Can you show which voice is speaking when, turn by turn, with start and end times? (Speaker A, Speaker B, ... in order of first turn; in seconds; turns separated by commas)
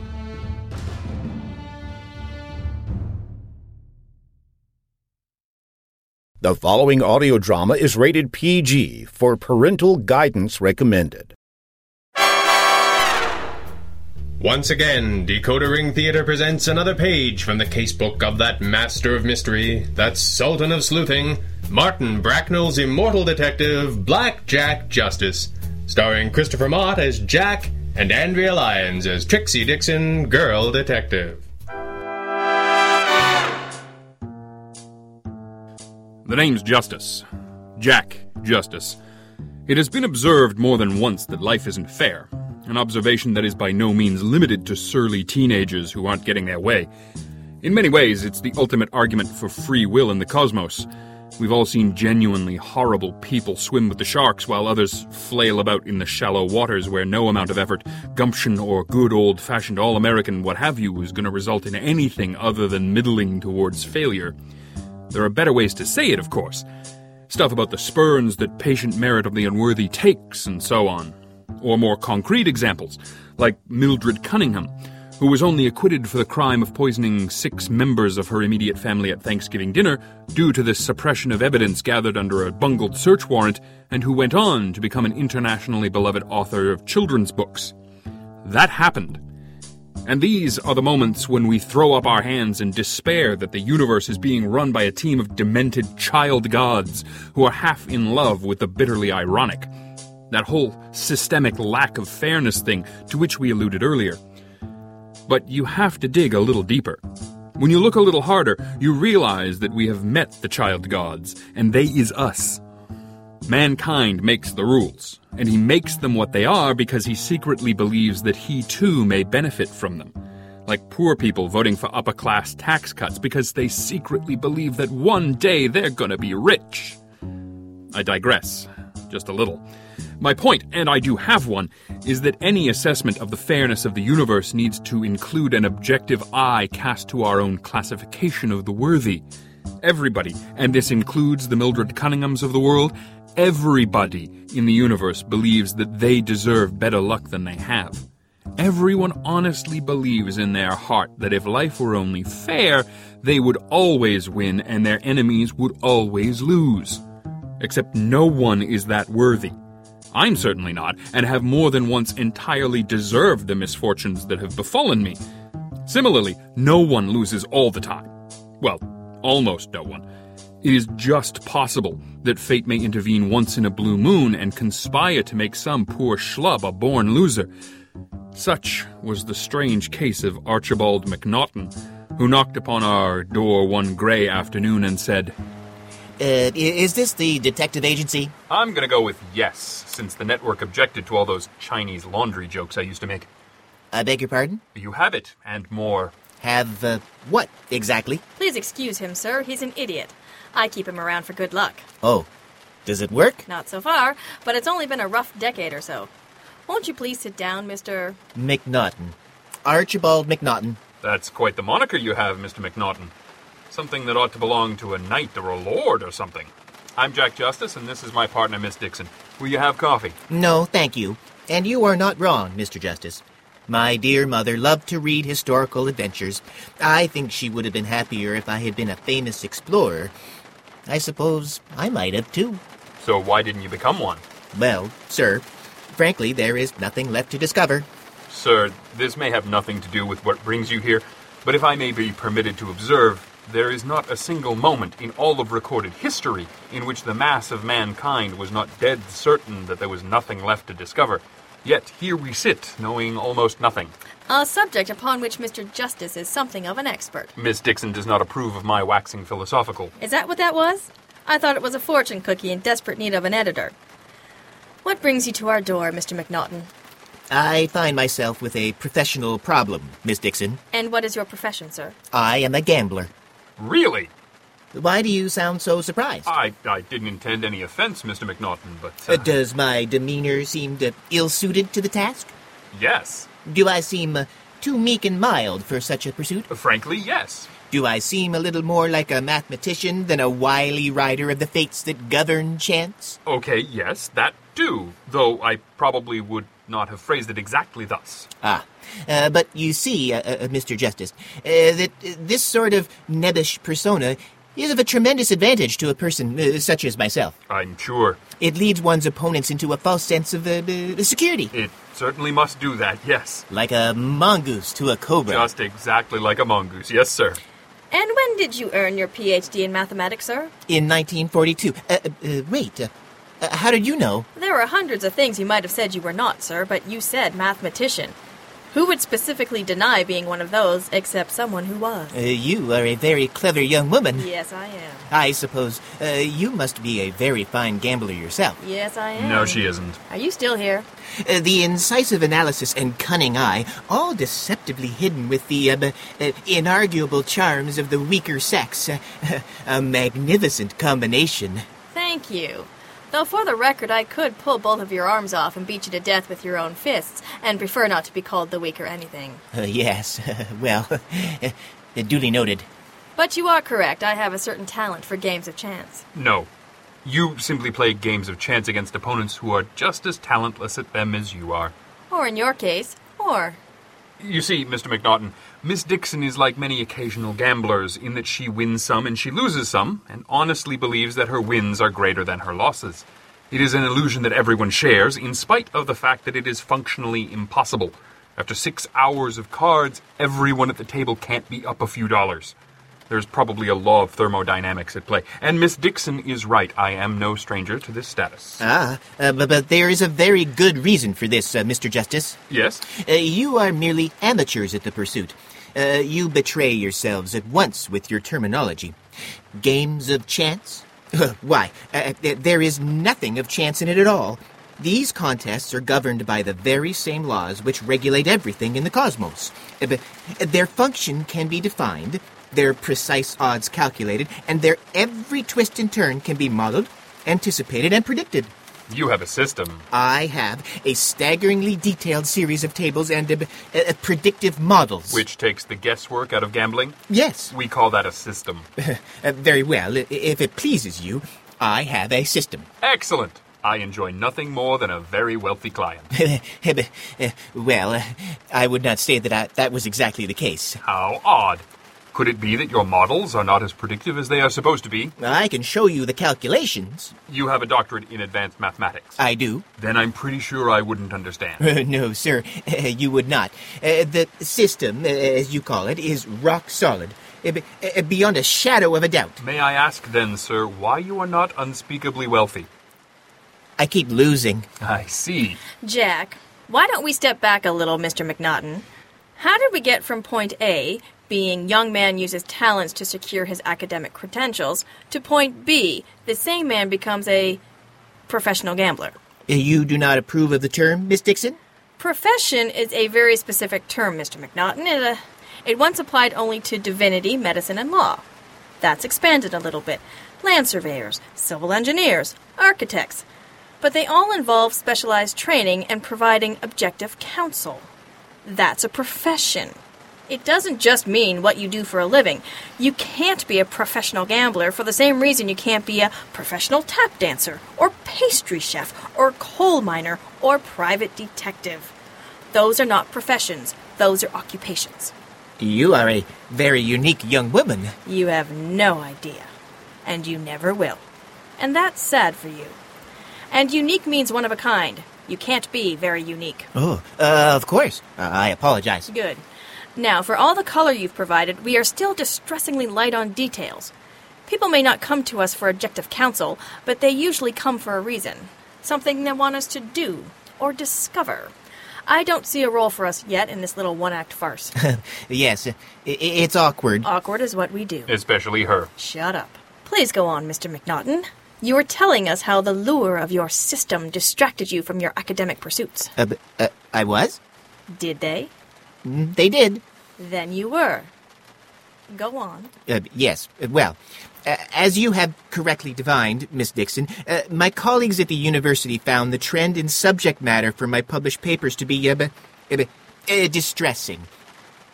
Speaker A: 6.4-11.3, Speaker B: 14.4-31.4, Speaker C: 36.2-37.2, Speaker C: 37.8-39.0, Speaker C: 39.7-46.9, Speaker C: 47.6-64.3, Speaker C: 65.1-66.7, Speaker C: 67.3-87.7, Speaker C: 88.4-89.2, Speaker C: 90.0-99.7, Speaker C: 100.3-104.2, Speaker C: 105.3-107.0, Speaker C: 107.5-112.6, Speaker C: 113.4-120.1, Speaker C: 120.7-127.0, Speaker C: 127.9-129.6, Speaker C: 130.2-139.2, Speaker C: 139.8-148.0, Speaker C: 148.6-157.0, Speaker C: 157.6-159.5, Speaker C: 160.1-165.2, Speaker C: 165.8-170.1, Speaker C: 170.6-177.5, Speaker C: 178.3-185.3, Speaker D: 186.2-188.3, Speaker C: 188.5-193.3, Speaker D: 193.9-194.6, Speaker C: 194.7-196.1, Speaker D: 196.4-198.2, Speaker E: 198.4-201.8, Speaker D: 202.0-202.3, Speaker D: 202.8-203.4, Speaker E: 203.5-206.1, Speaker E: 206.7-208.2, Speaker D: 208.3-210.8, Speaker C: 211.0-213.1, Speaker C: 213.7-220.2, Speaker D: 220.3-230.1, Speaker D: 230.9-232.6, Speaker C: 233.0-234.2, Speaker D: 234.5-237.9, Speaker C: 238.3-253.9, Speaker E: 254.3-257.3, Speaker C: 257.4-259.9, Speaker E: 260.0-263.7, Speaker E: 264.8-266.7, Speaker D: 267.3-270.6, Speaker E: 270.7-271.9, Speaker D: 272.1-273.1, Speaker C: 273.6-274.1, Speaker D: 274.7-276.3, Speaker C: 276.2-279.3, Speaker D: 279.1-282.3, Speaker C: 282.7-283.3, Speaker D: 283.4-286.5, Speaker C: 286.5-287.5, Speaker D: 287.7-293.2, Speaker C: 293.2-298.3, Speaker D: 298.4-307.3, Speaker C: 307.5-308.2, Speaker D: 308.4-311.5, Speaker C: 311.5-313.4, Speaker D: 313.5-315.5, Speaker C: 315.3-317.4, Speaker E: 317.9-320.5, Speaker D: 320.7-324.3, Speaker E: 324.4-328.1, Speaker E: 328.7-332.1, Speaker D: 332.1-334.3, Speaker E: 334.1-335.1, Speaker D: 335.1-338.6, Speaker E: 338.6-340.9, Speaker C: 339.2-340.0, Speaker D: 341.2-351.6, Speaker E: 351.9-359.4, Speaker D: 359.5-362.6, Speaker E: 363.2-366.0, Speaker C: 366.1-366.5, Speaker C: 367.0-371.7, Speaker E: 372.1-373.6, Speaker C: 374.2-392.5, Speaker C: 393.1-398.6, Speaker D: 398.6-402.4, Speaker C: 402.5-402.8, Speaker D: 402.9-408.9, Speaker D: 409.6-428.5, Speaker C: 428.9-429.9, Speaker D: 429.9-435.2, Speaker C: 435.1-437.0, Speaker D: 437.1-437.5, Speaker C: 437.5-438.7, Speaker D: 438.8-442.7, Speaker C: 442.8-446.1, Speaker D: 446.1-450.8, Speaker C: 450.8-455.1, Speaker D: 455.2-457.1, Speaker C: 457.3-459.2, Speaker D: 459.2-459.6, Speaker C: 459.8-461.6, Speaker D: 461.6-469.4, Speaker C: 469.4-472.7, Speaker D: 473.8-474.6, Speaker C: 474.8-475.6, Speaker E: 475.8-478.8, Speaker E: 479.4-487.6, Speaker E: 488.3-489.1, Speaker D: 489.5-491.6, Speaker E: 492.0-498.2, Speaker E: 498.8-503.2, Speaker E: 503.8-507.9, Speaker E: 508.4-509.8, Speaker E: 510.3-521.9, Speaker E: 522.5-525.1, Speaker D: 525.6-527.9, Speaker E: 528.0-529.5, Speaker E: 530.0-531.0, Speaker E: 531.6-532.8, Speaker E: 533.5-536.7, Speaker D: 536.7-539.1, Speaker E: 539.1-539.4, Speaker E: 540.0-543.9, Speaker E: 544.5-551.5, Speaker E: 552.1-554.7, Speaker D: 554.8-557.0, Speaker E: 557.0-558.1, Speaker C: 558.1-558.9, Speaker E: 559.0-566.1, Speaker D: 566.2-567.4, Speaker E: 567.9-568.5, Speaker D: 569.0-569.8, Speaker E: 570.2-571.1, Speaker E: 572.1-572.7, Speaker D: 572.9-584.3